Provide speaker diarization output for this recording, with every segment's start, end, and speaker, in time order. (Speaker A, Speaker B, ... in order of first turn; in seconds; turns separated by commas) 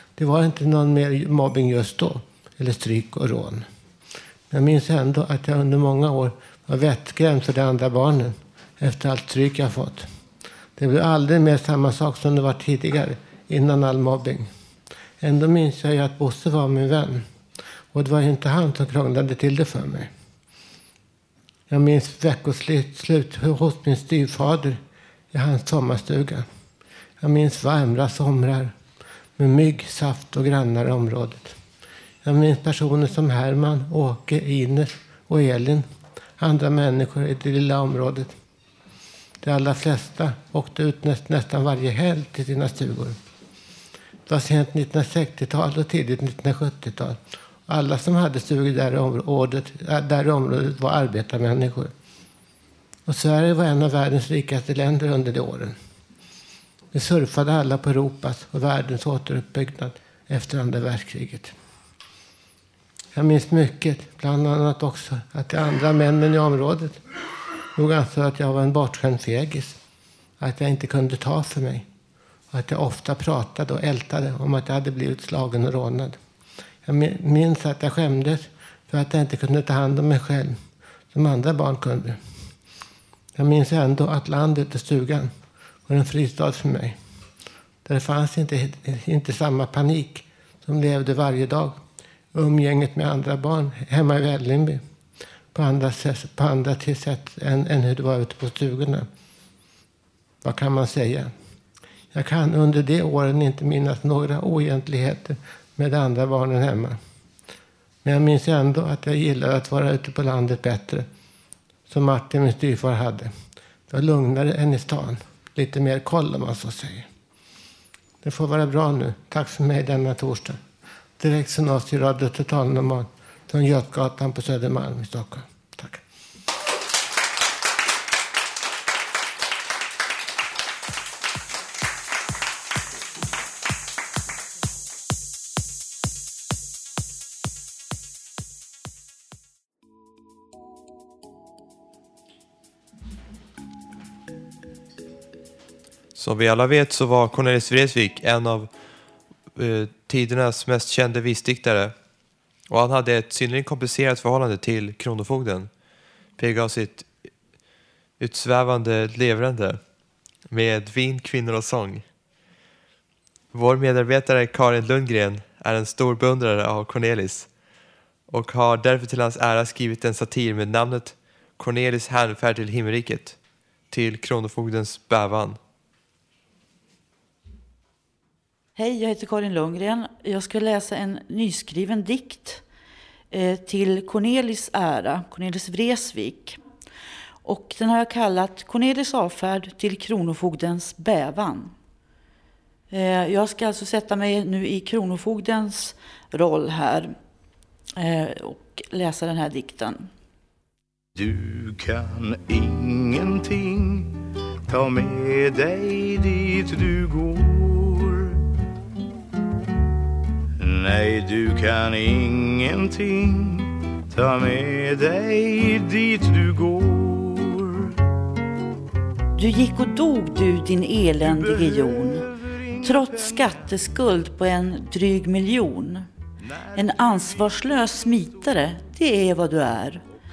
Speaker A: 0.2-3.6, Speaker A: 4.5-10.1, Speaker A: 10.8-14.5, Speaker A: 15.2-17.2, Speaker A: 17.9-20.1, Speaker A: 21.7-24.8, Speaker A: 25.3-26.4, Speaker A: 27.2-28.7, Speaker A: 29.4-31.5, Speaker A: 32.2-35.8, Speaker A: 36.4-38.3, Speaker A: 39.4-43.1, Speaker A: 44.3-51.9, Speaker A: 53.1-55.7, Speaker A: 56.9-61.5, Speaker A: 63.1-67.0, Speaker A: 67.8-69.8, Speaker A: 70.4-71.9, Speaker A: 72.5-76.2, Speaker A: 76.9-80.6, Speaker A: 81.1-82.2, Speaker A: 83.4-85.3, Speaker A: 85.9-87.0, Speaker A: 87.9-91.8, Speaker A: 92.3-94.8, Speaker A: 95.5-99.1, Speaker A: 100.5-101.3, Speaker A: 102.1-107.0, Speaker A: 108.0-111.0, Speaker A: 111.9-113.3, Speaker A: 113.9-117.1, Speaker A: 118.2-120.6, Speaker A: 121.2-126.0, Speaker B: 146.2-148.7, Speaker B: 149.6-151.9, Speaker B: 152.7-155.7, Speaker B: 156.4-157.1, Speaker B: 158.2-159.8, Speaker B: 160.5-162.0, Speaker B: 163.5-167.5, Speaker B: 168.3-173.4, Speaker B: 173.9-175.6, Speaker C: 178.8-182.6, Speaker C: 183.3-186.6, Speaker C: 187.4-191.7, Speaker C: 192.9-197.1, Speaker C: 198.0-200.1, Speaker D: 201.2-208.4, Speaker D: 210.6-217.9, Speaker C: 219.4-222.2, Speaker D: 221.2-223.7, Speaker C: 222.8-226.1, Speaker D: 226.5-228.1, Speaker C: 226.8-230.0